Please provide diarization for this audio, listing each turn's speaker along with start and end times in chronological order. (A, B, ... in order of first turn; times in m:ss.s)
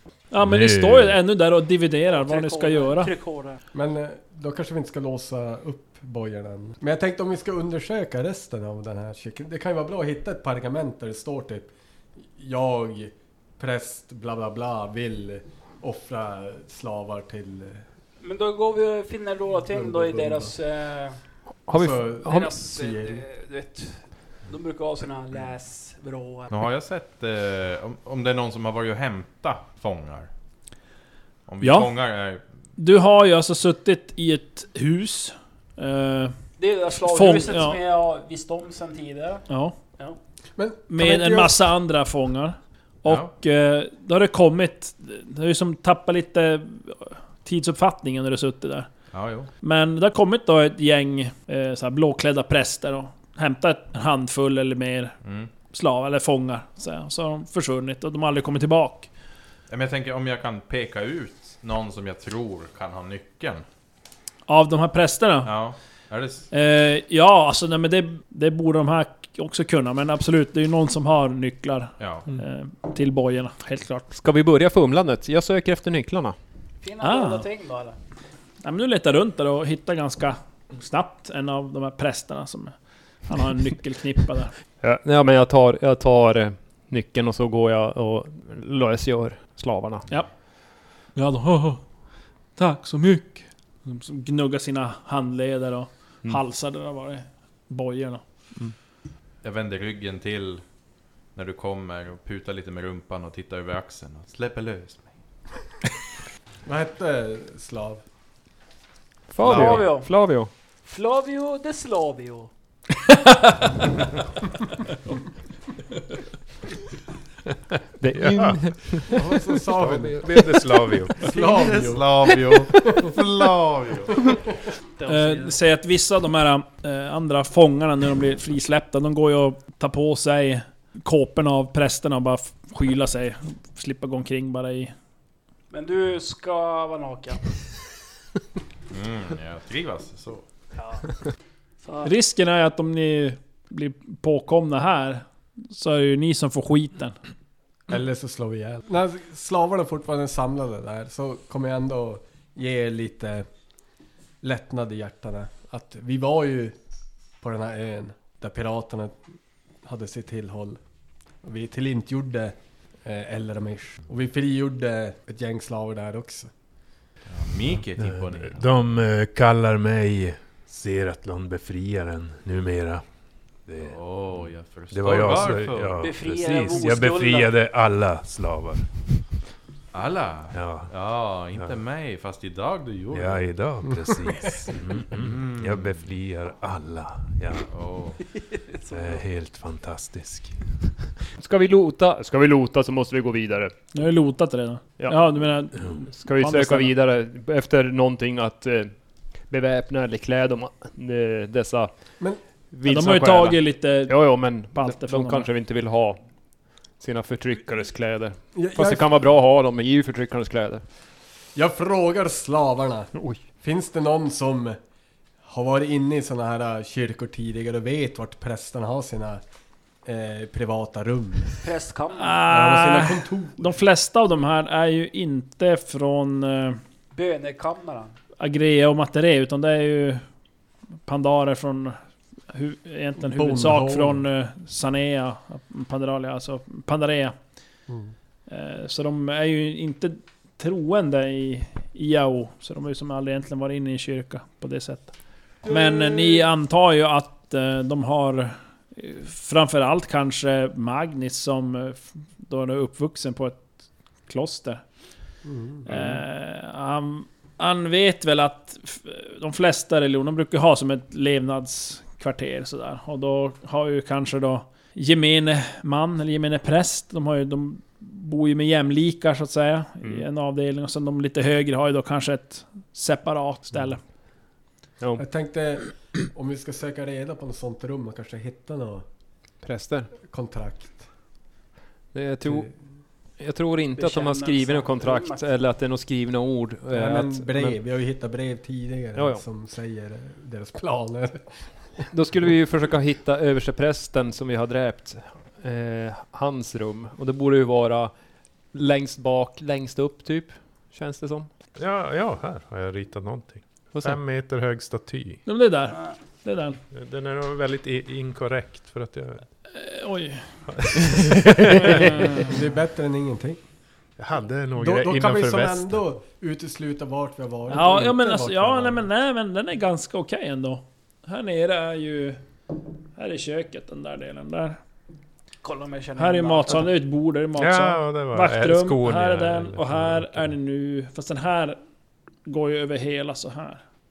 0:00.3-0:03.1 A
0:00.4-0:01.2 B
0:02.1-0:03.6 C
0:03.7-0:11.7 D
0:12.3-0:17.8 D
0:18.2-0:21.2 C
0:19.7-0:20.5 D
0:21.7-0:22.5 E
0:21.7-0:23.2 D
0:22.3-0:26.5 C
0:26.5-0:30.3 F
0:31.5-0:32.4 F
0:31.6-0:31.9 A
0:32.8-0:36.4 A
0:36.6-0:39.4 C
0:37.0-0:37.8 A
0:39.5-0:39.8 A
0:40.6-0:41.6 D
0:40.9-0:48.9 A
0:43.1-0:43.3 F
0:49.1-0:49.5 F
0:49.6-0:55.2 A
0:55.2-0:55.5 F
0:55.7-0:59.1 A
0:59.7-1:03.6 F
1:04.5-1:05.5 A
1:05.4-1:06.5 F
1:06.5-1:14.1 A
1:12.0-1:12.3 F
1:14.1-1:16.4 E
1:16.8-1:18.0 C
1:17.0-1:17.5 A
1:18.6-1:22.8 A
1:23.3-1:24.5 A
1:24.8-1:30.1 E
1:31.2-1:31.8 A
1:32.6-1:38.2 A
1:39.4-1:40.6 F
1:41.3-1:45.1 F
1:46.7-1:48.0 D
1:49.3-1:50.5 E
1:49.4-1:49.9 F
1:49.4-1:50.1 C
1:50.8-1:52.5 C
1:58.0-1:59.2 E
1:58.1-1:59.0 B
1:59.1-2:00.5 D
1:59.8-2:01.3 B
2:01.2-2:02.1 D
2:01.2-2:04.2 F
2:02.8-2:03.1 D
2:05.0-2:05.6 C
2:05.1-2:14.9 A
2:15.7-2:17.5 C
2:18.9-2:20.4 F
2:20.8-2:21.1 C
2:21.8-2:22.1 C
2:22.0-2:27.2 A
2:27.9-2:33.5 D
2:34.4-2:36.8 D
2:37.4-2:39.2 D
2:39.8-2:40.8 D
2:41.4-2:46.5 D
2:47.3-2:48.7 F
2:48.0-2:53.0 B
2:53.7-2:54.0 B
2:53.8-2:56.0 F
2:54.9-2:58.9 B
2:56.0-2:57.5 C
2:59.9-3:03.4 F
3:00.5-3:00.9 B
3:03.1-3:07.7 B
3:05.0-3:06.0 F
3:07.7-3:08.2 F
3:08.5-3:09.1 C
3:08.9-3:10.6 B
3:11.4-3:13.7 E
3:13.9-3:17.0 A
3:15.0-3:15.3 E
3:16.2-3:21.9 E
3:22.7-3:26.2 E
3:22.8-3:25.5 A
3:27.0-3:30.8 E
3:28.5-3:29.1 D
3:31.6-3:34.8 D
3:33.1-3:33.4 E
3:35.4-3:39.4 D
3:40.0-3:41.7 D
3:41.6-3:42.4 C
3:42.2-3:46.8 A
3:42.5-3:43.8 D
3:47.1-3:48.2 C
3:48.4-3:50.2 A
3:51.1-3:52.0 A
3:52.5-3:57.4 A
3:53.2-3:54.2 D
3:57.9-3:58.1 D
3:58.5-4:05.1 A
4:05.6-4:06.4 D
4:05.6-4:13.7 A
4:14.3-4:14.8 A
4:15.4-4:15.9 D
4:15.8-4:34.0 A
4:35.2-4:39.0 D
4:39.6-4:40.1 E
4:40.2-4:41.0 D
4:42.1-4:42.7 E
4:42.4-4:42.7 D
4:43.4-4:47.8 E
4:44.0-4:45.5 C
4:46.9-4:51.6 D
4:49.2-4:49.4 E
4:52.1-4:58.1 E
4:58.7-5:01.5 E
5:01.8-5:05.4 B
5:05.5-5:06.8 A
5:06.9-5:09.4 B
5:09.7-5:11.1 A
5:10.7-5:12.0 B
5:11.7-5:12.5 A
5:12.3-5:13.6 D
5:14.2-5:16.0 B
5:14.8-5:19.0 D
5:17.7-5:22.4 A
5:23.2-5:24.8 A
5:25.6-5:26.9 C
5:26.2-5:31.8 A
5:27.6-5:30.5 B
5:32.4-5:33.8 A